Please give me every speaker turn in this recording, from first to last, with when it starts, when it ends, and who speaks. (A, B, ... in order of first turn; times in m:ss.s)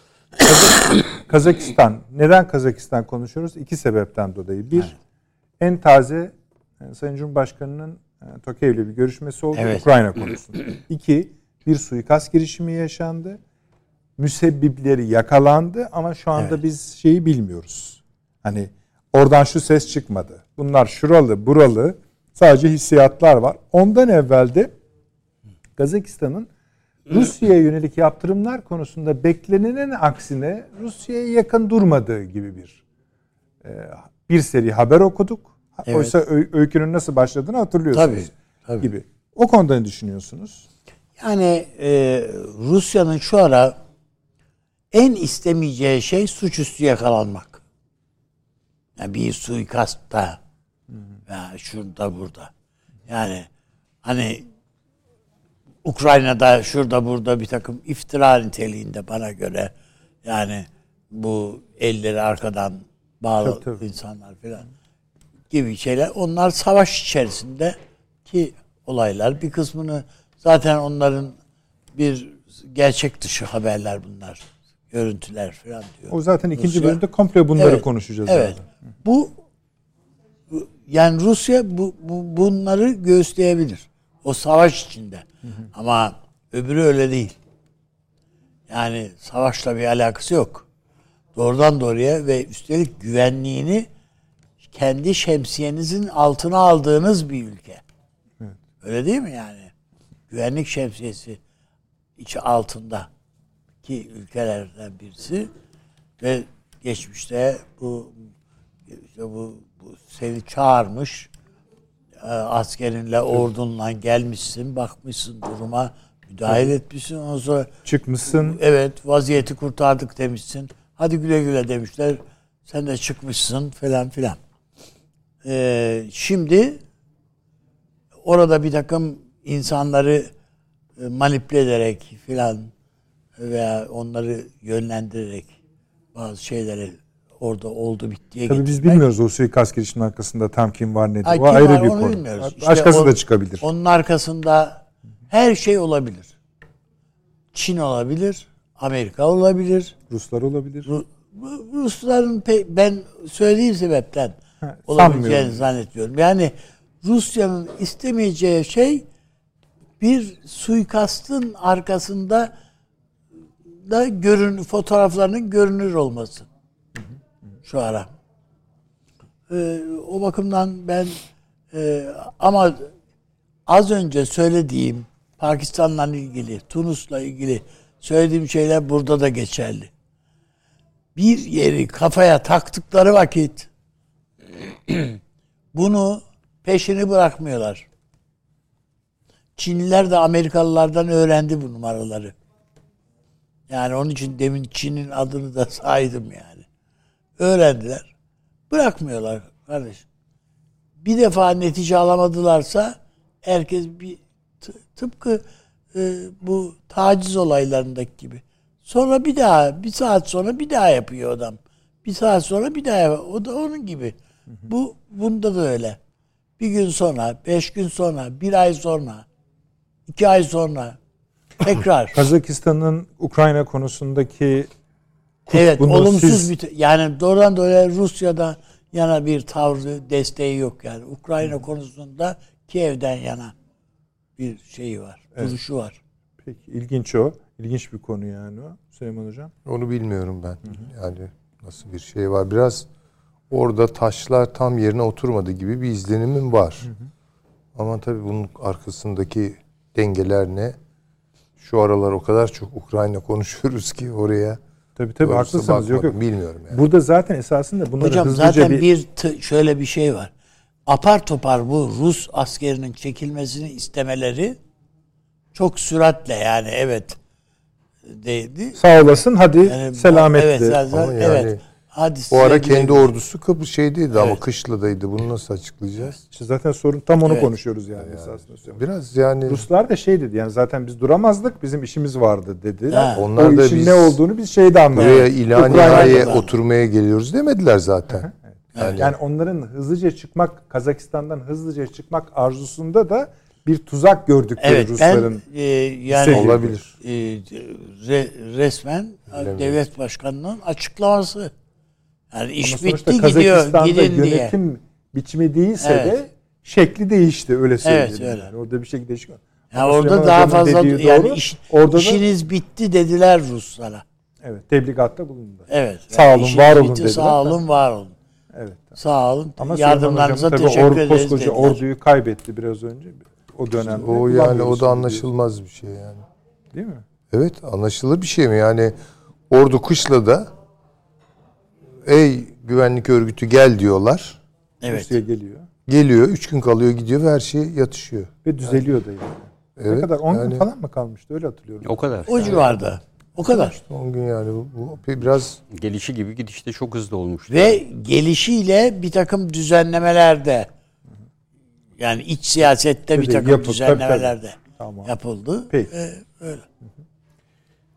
0:00.4-0:05.0 A
0:05.6-0:13.4 A
0:09.6-0:09.8 B
0:14.2-0:24.7 A
0:25.8-0:26.5 A
0:27.1-0:32.8 A
0:33.6-0:40.6 A
0:37.9-0:38.9 B
0:41.2-0:43.8 B
0:44.9-0:47.6 B
0:49.0-0:50.4 B
0:51.3-0:52.5 B
0:53.1-0:53.5 B
0:54.0-0:54.4 B
0:55.8-0:59.7 B
1:00.2-1:04.7 B
1:03.4-1:03.8 A
1:05.5-1:11.4 B
1:11.9-1:17.0 B
1:16.1-1:18.6 A
1:17.6-1:19.4 B
1:20.5-1:27.4 B
1:28.7-1:30.6 B
1:31.3-1:33.9 B
1:34.6-1:37.8 B
1:38.8-1:39.7 B
1:40.3-1:41.4 B
1:42.2-1:43.1 B
1:43.8-1:45.5 B
1:46.2-1:48.1 B
1:48.9-1:51.3 B
1:52.2-1:57.7 B
1:57.8-1:58.6 A
1:58.2-2:04.4 B
2:05.4-2:06.8 B
2:08.2-2:10.3 B
2:11.0-2:12.7 B
2:13.4-2:15.6 B
2:16.1-2:19.0 B
2:18.5-2:23.6 A
2:21.2-2:26.3 B
2:27.5-2:30.0 B
2:30.1-2:30.9 A
2:30.8-2:39.0 B
2:34.7-2:35.6 A
2:40.0-2:42.5 B
2:43.8-2:46.5 B
2:47.6-2:48.1 B
2:49.5-2:51.2 B
2:51.7-2:52.9 B
2:53.7-2:59.9 B
3:01.2-3:03.7 B
3:04.6-3:05.2 B
3:05.7-3:07.9 B
3:09.6-3:12.3 B
3:13.7-3:16.6 B
3:17.4-3:18.1 B
3:18.7-3:20.0 B
3:21.0-3:36.0 B
3:36.6-3:39.2 B
3:40.1-3:41.0 B
3:41.6-3:42.2 B
3:42.1-3:44.7 A
3:45.4-3:46.5 A
3:45.5-3:53.5 B
3:54.4-3:56.0 B
3:56.4-3:59.5 A
3:59.6-4:02.9 C
4:03.5-4:06.9 C
4:07.7-4:10.8 C
4:11.6-4:14.6 C
4:15.0-4:16.2 A
4:15.2-4:16.8 C
4:16.7-4:18.8 A
4:18.0-4:20.3 B
4:20.8-4:24.6 B
4:25.5-4:27.2 B
4:28.1-4:28.8 B
4:28.8-4:30.8 A
4:29.6-4:33.1 B
4:30.9-4:31.6 C
4:32.3-4:36.2 C
4:36.2-4:38.8 A
4:38.0-4:39.6 C
4:39.4-4:46.4 A
4:42.9-4:43.3 B
4:43.2-4:44.2 C
4:44.9-4:48.2 C
4:45.0-4:46.5 B
4:48.2-4:55.4 A
4:48.8-4:49.1 C
4:54.6-5:01.5 B
4:56.1-4:56.8 A
4:56.2-4:56.9 C
4:59.3-4:59.8 C
5:02.3-5:04.5 B
5:02.6-5:12.2 A
5:05.8-5:06.2 B
5:07.8-5:08.5 B
5:09.7-5:14.0 B
5:14.4-5:17.6 A
5:15.7-5:18.1 B
5:18.5-5:18.9 A
5:19.0-5:21.8 B
5:19.6-5:25.2 A
5:23.8-5:26.2 C
5:26.7-5:27.0 A
5:27.3-5:28.9 C
5:29.5-5:30.5 C
5:32.0-5:34.4 C
5:34.8-5:35.1 B
5:34.9-5:35.7 A
5:35.9-5:38.8 C
5:38.4-5:42.8 A
5:39.8-5:40.6 C
5:41.8-5:42.6 D
5:42.3-5:43.7 B
5:43.5-5:45.6 C
5:45.7-5:47.8 D
5:47.5-5:50.7 B
5:52.0-5:56.6 B
5:53.1-5:55.1 A